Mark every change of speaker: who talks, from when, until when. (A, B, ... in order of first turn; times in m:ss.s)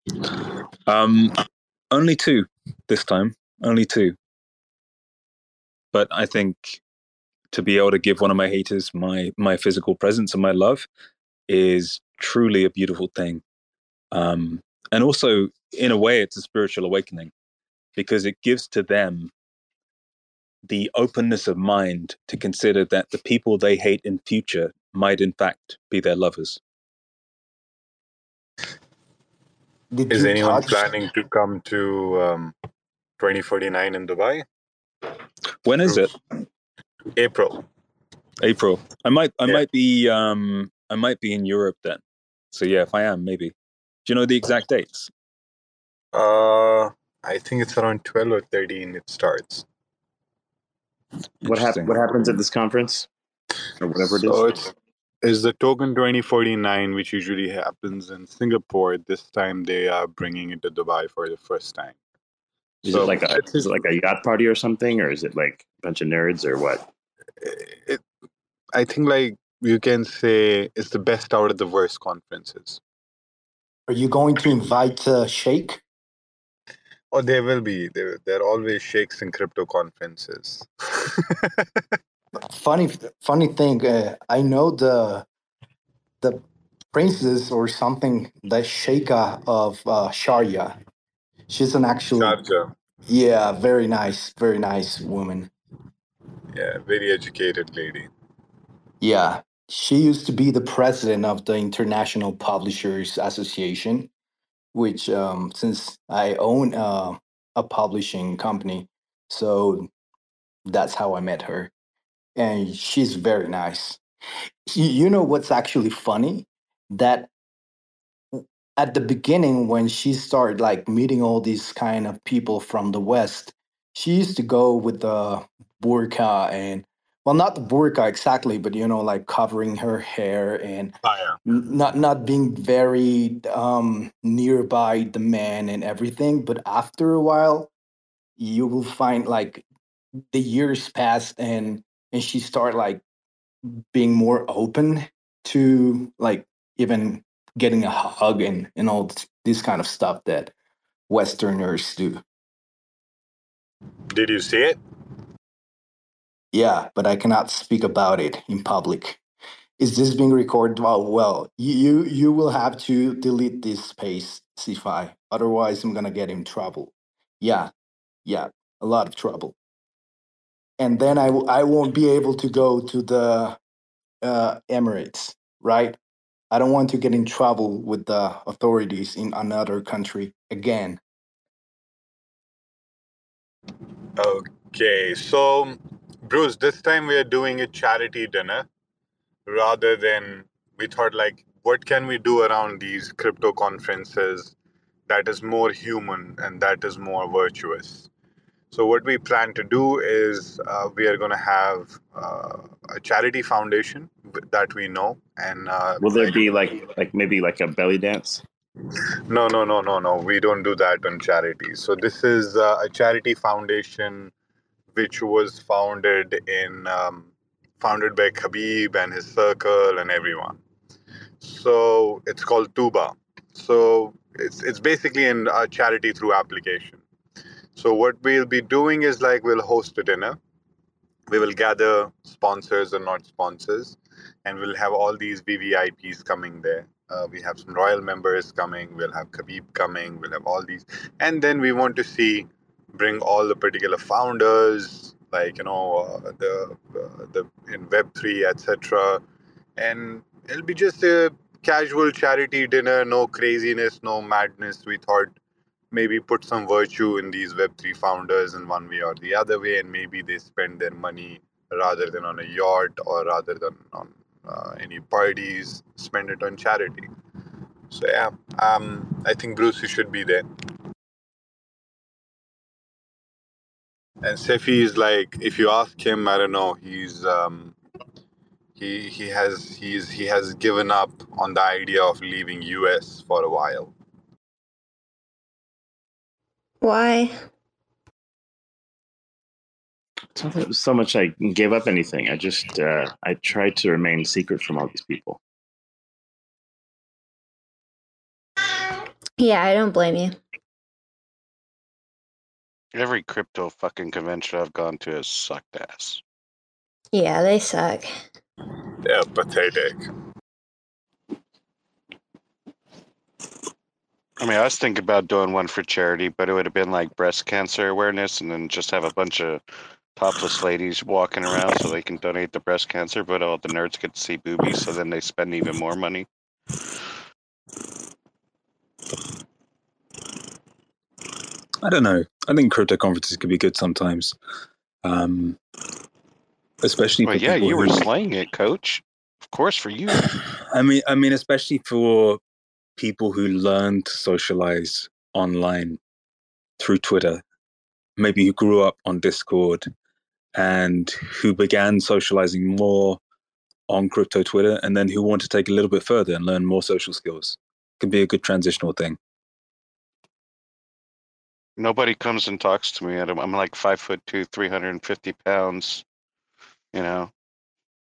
0:00.9-0:01.4 A
0:01.9-0:04.2 A
0:05.9-0:06.8 A
0:07.5-0:10.8 A
0:11.5-0:13.4 A
0:14.1-0:17.3 A
0:18.0-0:19.3 A
0:20.6-0:26.6 A
0:29.9-0:30.9 B
0:30.1-0:32.5 C
0:33.2-0:34.4 C
0:35.6-0:36.1 A
0:37.2-0:37.6 C
0:38.4-0:42.0 A
0:42.5-0:43.5 A
0:44.0-0:45.1 A
0:46.1-0:49.6 C
0:51.4-0:52.0 A
0:51.4-0:53.1 D
0:53.8-0:54.7 D
0:54.0-0:54.7 C
0:55.2-1:02.0 C
1:02.8-1:03.8 C
1:02.8-1:06.8 D
1:07.4-1:08.0 C
1:08.8-1:12.8 C
1:13.9-1:15.8 B
1:17.1-1:21.6 C
1:22.5-1:25.2 B
1:26.2-1:30.8 B
1:31.5-1:32.4 B
1:32.2-1:32.7 C
1:33.0-1:35.5 B
1:36.5-1:38.1 C
1:39.0-1:44.1 B
1:44.7-1:49.9 B
1:50.7-1:51.7 B
1:52.4-1:54.0 B
1:54.7-1:57.3 B
1:58.3-2:10.9 B
2:11.0-2:11.3 C
2:11.4-2:17.7 B
2:18.4-2:19.6 B
2:20.3-2:23.0 B
2:23.6-2:30.5 B
2:31.1-2:32.2 B
2:34.1-2:34.8 C
2:36.5-2:39.2 B
2:39.8-2:47.7 B
2:48.2-2:49.5 B
2:50.8-2:53.6 B
2:54.2-2:56.0 B
2:56.5-3:01.0 B
3:04.2-3:08.7 C
3:09.4-3:14.5 C
3:15.1-3:18.1 C
3:18.7-3:26.6 C
3:26.0-3:28.4 D
3:29.3-3:34.3 C
3:34.9-3:40.6 C
3:41.4-3:47.0 C
3:47.7-3:50.4 C
3:51.3-4:09.2 C
4:09.8-4:15.4 C
4:15.9-4:27.0 C
4:27.9-4:30.4 C
4:34.2-4:37.8 C
4:38.8-4:43.9 C
4:46.8-4:47.4 E
4:50.3-4:55.4 D
4:59.4-5:00.4 E
5:02.9-5:06.2 F
5:07.1-5:08.2 E
5:09.0-5:10.0 C
5:14.4-5:19.6 F
5:20.1-5:26.3 F
5:31.8-5:34.4 A
5:35.0-5:35.6 A
5:36.8-5:38.0 A
5:37.2-5:40.3 F
5:40.2-5:42.4 A
5:43.0-5:46.0 A
5:46.8-5:47.4 A
5:48.2-5:49.9 A
5:50.6-5:53.2 A
5:53.9-5:59.2 A
6:01.8-6:06.0 F
6:06.9-6:07.3 F